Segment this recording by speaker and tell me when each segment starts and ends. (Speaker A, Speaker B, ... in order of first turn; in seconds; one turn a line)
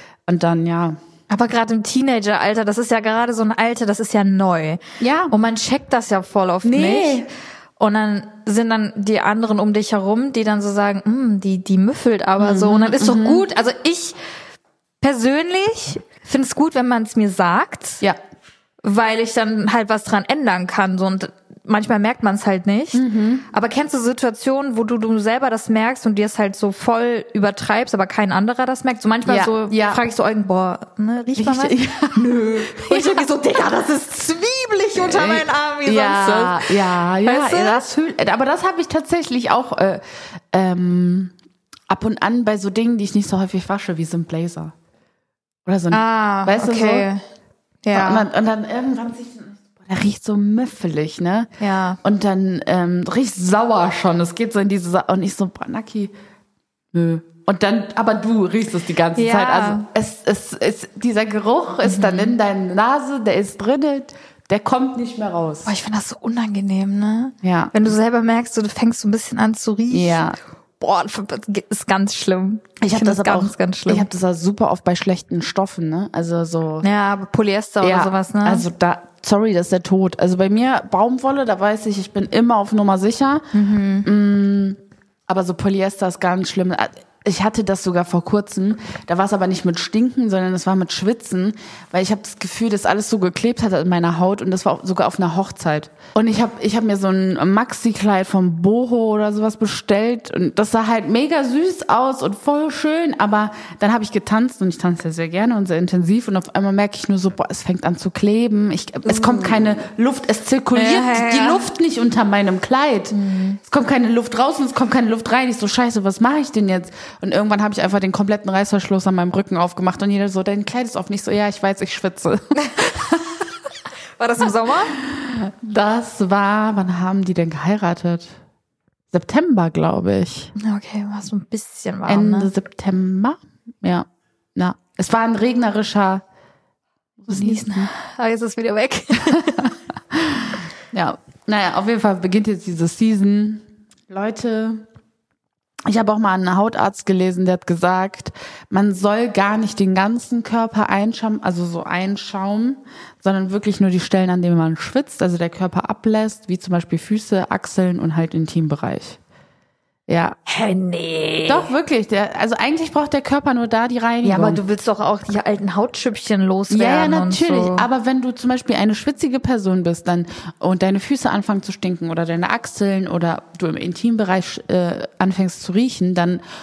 Speaker A: 0.3-1.0
Speaker B: 1.3-7.3
Speaker A: 5.0-5.4
Speaker A: 6.6-7.3
Speaker B: 7.8-14.2
Speaker A: 12.4-13.4
Speaker B: 15.0-18.0
Speaker B: 18.8-38.0
Speaker A: 22.9-23.5
Speaker A: 29.3-30.0
Speaker A: 31.4-33.3
Speaker A: 35.0-41.3
Speaker A: 41.9-44.7
Speaker A: 45.7-47.1
Speaker B: 45.9-47.2
Speaker B: 47.8-48.3
Speaker A: 47.9-51.5
Speaker B: 51.6-52.0
Speaker A: 52.0-56.1
Speaker A: 56.9-65.7
Speaker B: 59.1-59.9
Speaker B: 61.8-62.4
Speaker B: 65.7-70.2
Speaker A: 67.4-67.8
Speaker A: 69.9-70.4
Speaker B: 70.8-74.1
Speaker A: 72.8-76.9
Speaker B: 76.8-78.7
Speaker A: 77.8-83.5
Speaker B: 83.5-84.1
Speaker A: 84.0-123.4
Speaker B: 109.1-109.6
Speaker B: 110.7-111.7
Speaker B: 113.1-113.6
Speaker B: 124.2-125.0
Speaker A: 125.0-128.3
Speaker A: 129.1-130.5
Speaker B: 130.6-132.5
Speaker A: 132.1-136.2
Speaker A: 137.2-137.9
Speaker B: 137.3-139.7
Speaker A: 139.3-144.9
Speaker A: 145.9-159.2
Speaker A: 160.1-160.4
Speaker B: 160.5-161.7
Speaker A: 161.5-164.6
Speaker B: 164.2-167.9
Speaker A: 166.7-176.4